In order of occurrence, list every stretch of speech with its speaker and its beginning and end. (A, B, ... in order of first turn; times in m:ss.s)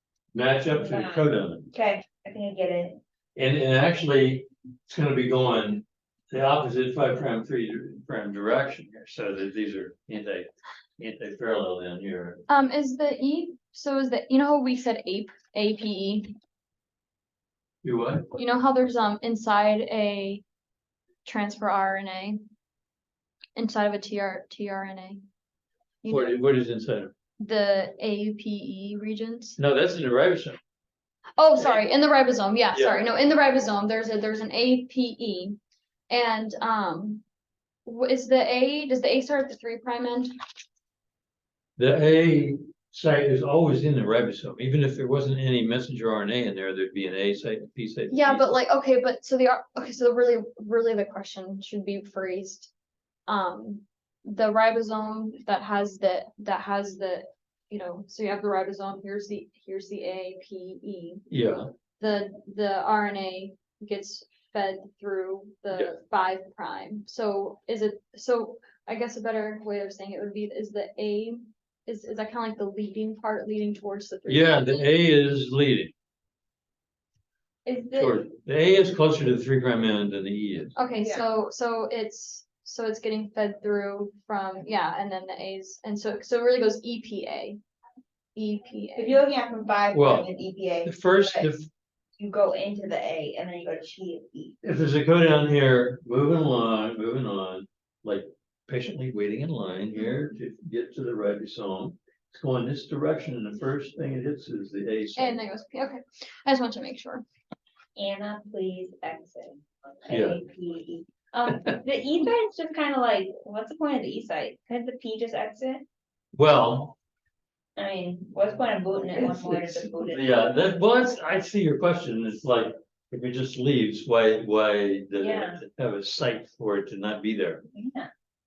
0:00.3-0:01.7 A
0:00.7-0:03.0 B
0:03.4-0:12.4 A
0:12.5-0:16.4 C
0:17.8-0:18.3 A
0:18.3-0:20.4 C
0:21.2-0:22.5 C
0:23.6-0:25.2 C
0:26.0-0:26.4 C
0:26.1-0:27.1 A
0:27.4-0:29.6 C
0:29.6-0:30.6 A
0:31.4-0:35.6 C
0:32.7-0:33.0 A
0:36.1-0:37.2 C
0:37.9-0:40.3 C
0:41.8-0:48.6 A
0:48.1-0:52.7 C
0:53.3-1:01.3 C
1:01.3-1:01.7 A
1:02.0-1:14.9 C
1:14.3-1:15.9 A
1:17.6-1:18.2 B
1:18.0-1:20.7 A
1:20.8-1:27.6 C
1:21.0-1:21.2 B
1:28.4-1:29.2 C
1:29.0-1:31.5 B
1:29.9-1:30.3 A
1:30.8-1:31.7 A
1:32.2-1:34.6 B
1:34.6-1:45.4 A
1:45.2-1:47.2 C
1:48.0-1:55.9 B
1:50.1-1:50.4 A
1:56.4-1:57.0 A
1:57.8-2:00.6 B
1:59.2-2:07.6 A
2:05.2-2:05.6 B
2:07.7-2:08.1 B